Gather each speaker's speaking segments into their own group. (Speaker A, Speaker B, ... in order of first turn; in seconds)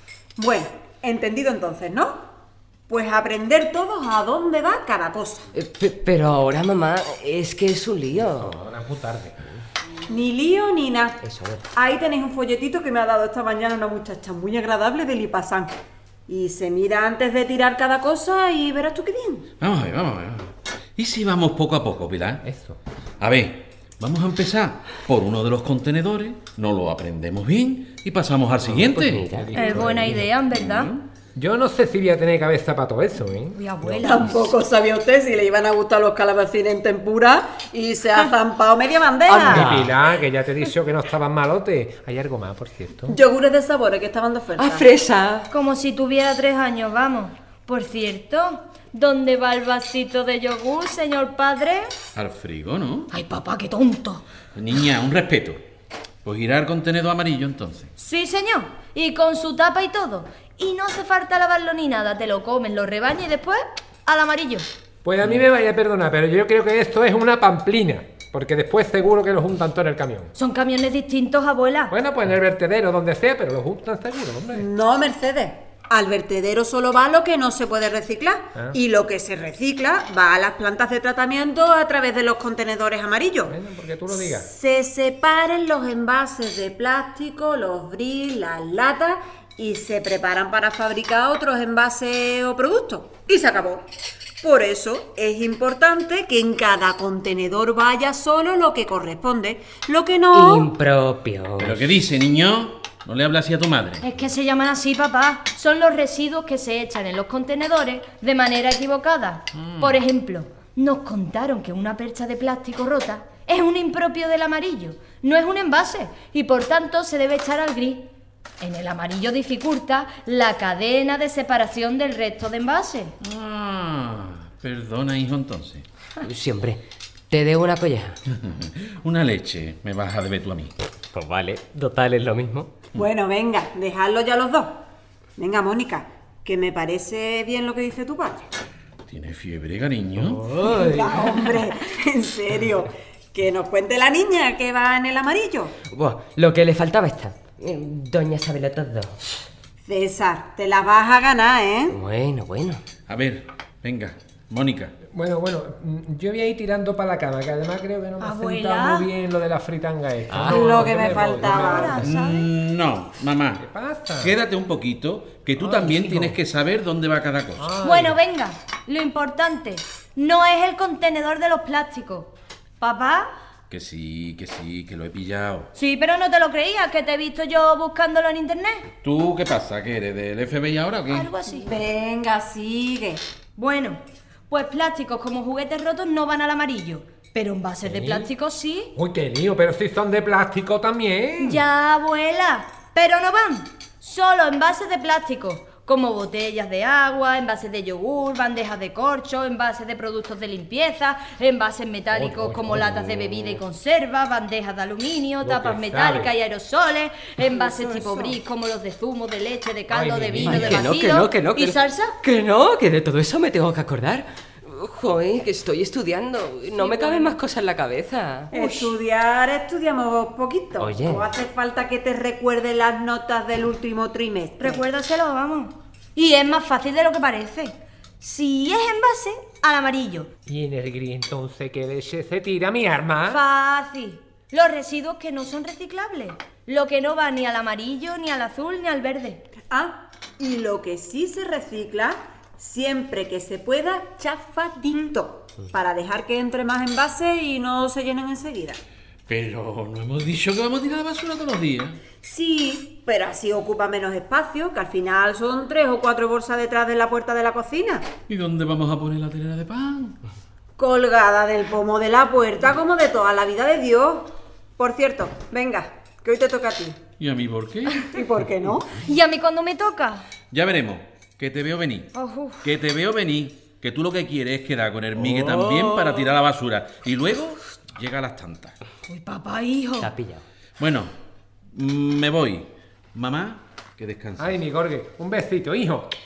Speaker A: 0.4-2.2, 2.9-5.5, 10.1-11.2, 11.7-15.8, 16.3-19.4, 34.0-39.7, 43.1-44.9, 74.5-83.5, 84.1-93.9, 94.4-100.7, 132.9-134.8, 135.4-138.5, 140.6-145.7, 149.8-152.0, 160.4-162.0, 181.5-183.2, 207.5-208.3, 218.5-224.8, 239.7-248.8, 252.2-258.1, 260.8-267.0, 268.1-269.0
Speaker B: 5.5-8.7, 11.2-11.6, 29.1-29.7, 39.4-39.9, 44.6-45.5, 100.3-101.9, 126.2-128.2, 131.0-132.7, 140.6-141.0, 145.9-149.2, 151.9-152.8, 160.3-160.6, 210.4-218.6, 220.8-221.3, 275.4-275.9, 280.0-280.4
Speaker C: 8.2-9.4, 22.4-22.8, 28.6-30.3, 31.4-34.1, 39.5-43.2, 65.0-70.3, 71.9-74.6, 83.5-84.5, 140.5-140.8, 155.1-162.1, 163.6-164.3, 165.6-166.4, 167.6-168.2, 187.8-188.3, 188.9-191.6, 202.1-203.6, 205.4-206.3, 209.9-210.6, 230.5-233.4, 284.4-286.1
Speaker D: 19.6-22.4, 23.2-29.3, 30.5-31.1, 52.1-53.1, 54.6-55.6, 56.2-57.9, 101.6-104.0, 109.5-110.0, 123.2-125.8, 128.3-130.7, 139.1-140.5, 153.1-154.9, 162.0-163.6, 164.2-167.8, 173.7-175.7, 179.0-181.3, 249.3-252.0, 258.3-260.2, 267.2-268.1, 270.5-278.8, 280.8-281.1, 281.7-284.6
Speaker E: 29.5-30.9, 33.5-34.5, 39.3-39.6, 45.5-51.9, 53.1-54.2, 58.0-64.7, 70.4-71.9, 104.0-118.0, 118.6-123.1, 158.2-159.1, 161.3-162.5, 167.8-173.3, 175.8-178.9, 181.1-181.7, 183.6-188.9, 191.4-212.2, 216.9-217.3, 224.6-230.3, 233.3-239.4, 269.0-270.2, 272.1-272.6, 279.1-280.1